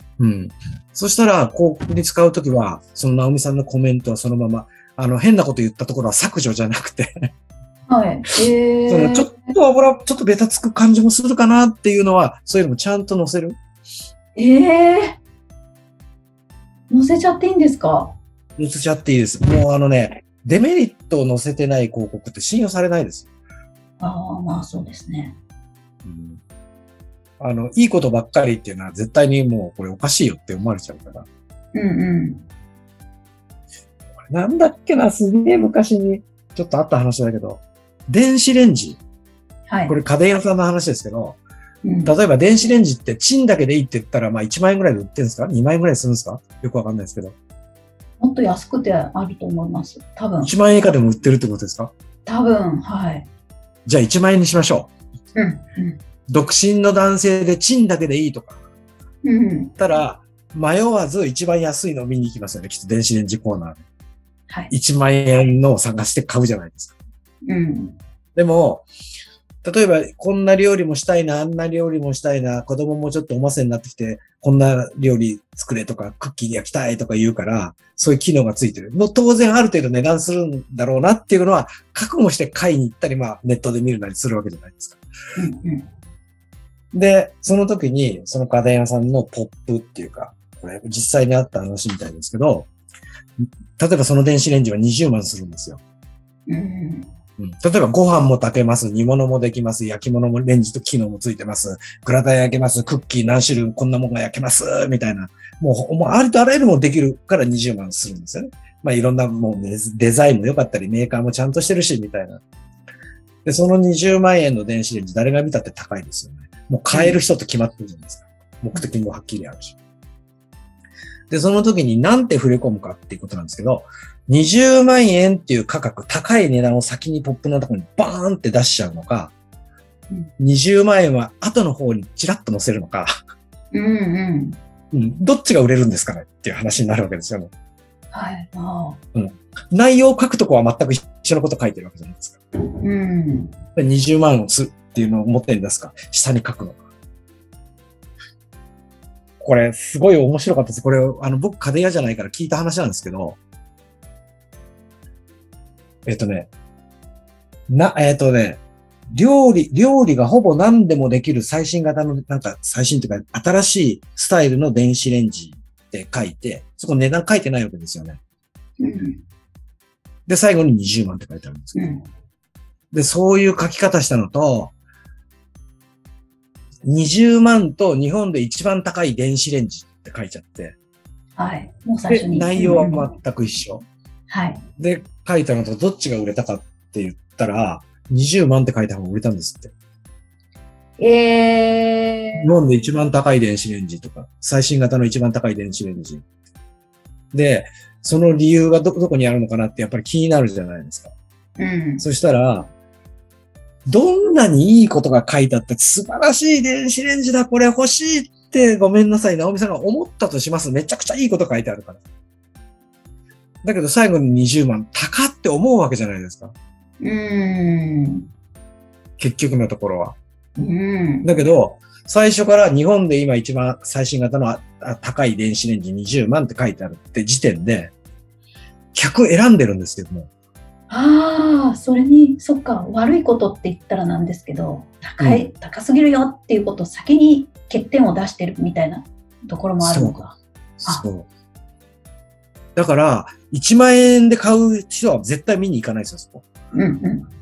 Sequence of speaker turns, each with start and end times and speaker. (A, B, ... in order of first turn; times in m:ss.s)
0:00.2-0:07.3 A
0:07.9-0:09.5 B
0:08.9-0:13.6 A
0:14.4-0:15.2 B
0:16.9-0:18.2 B
0:18.6-0:23.3 A
0:24.0-0:25.4 B
0:26.0-0:26.4 A
0:27.4-0:31.3 A
0:31.7-0:32.4 B
0:34.3-0:39.0 A
0:39.7-0:40.0 B
0:39.9-0:41.4 A
0:41.8-0:42.1 B
0:42.0-0:47.4 A
0:48.2-0:50.5 B
0:50.4-0:51.9 A
0:52.3-0:53.3 B
0:53.9-0:54.9 A
0:55.4-0:56.0 B
0:56.3-0:58.6 A
0:59.2-0:59.7 B
0:59.8-1:03.8 A
1:04.7-1:07.0 A
1:07.5-1:08.0 B
1:08.4-1:08.9 A
1:09.6-1:25.0 A
1:25.4-1:25.9 B
1:26.9-1:32.7 A
1:33.4-1:35.8 A
1:36.5-1:37.1 B
1:37.4-1:52.4 A
1:53.4-1:59.8 A
1:56.9-1:57.2 B
2:01.3-2:09.3 A
2:10.4-2:13.1 A
2:13.7-2:14.6 B
2:14.9-2:17.5 A
2:18.1-2:19.0 B
2:19.1-2:22.4 A
2:22.8-2:23.5 B
2:23.8-2:26.8 A
2:29.4-2:33.4 A
2:36.1-2:36.5 A
2:37.7-2:48.2 A
2:48.8-2:49.2 B
2:50.3-2:51.8 A
2:51.8-2:52.0 B
2:52.9-2:54.7 A
2:56.8-3:00.8 A
3:01.4-3:03.1 B
3:02.1-3:03.8 A
3:04.3-3:04.6 B
3:04.8-3:09.7 A
3:11.0-3:12.5 B
3:12.4-3:16.2 A
3:17.3-3:21.1 A
3:21.6-3:22.0 B
3:22.0-3:22.7 A
3:23.9-3:32.0 A
3:33.6-3:36.5 A
3:37.0-3:38.3 B
3:39.2-3:40.2 A
3:40.6-3:41.3 B
3:41.2-3:47.9 A
3:49.0-3:50.3 A
3:50.9-4:01.0 B
3:55.2-3:55.5 A
3:59.8-4:00.2 A
4:00.8-4:01.3 A
4:02.8-4:06.4 A
4:06.7-4:07.3 B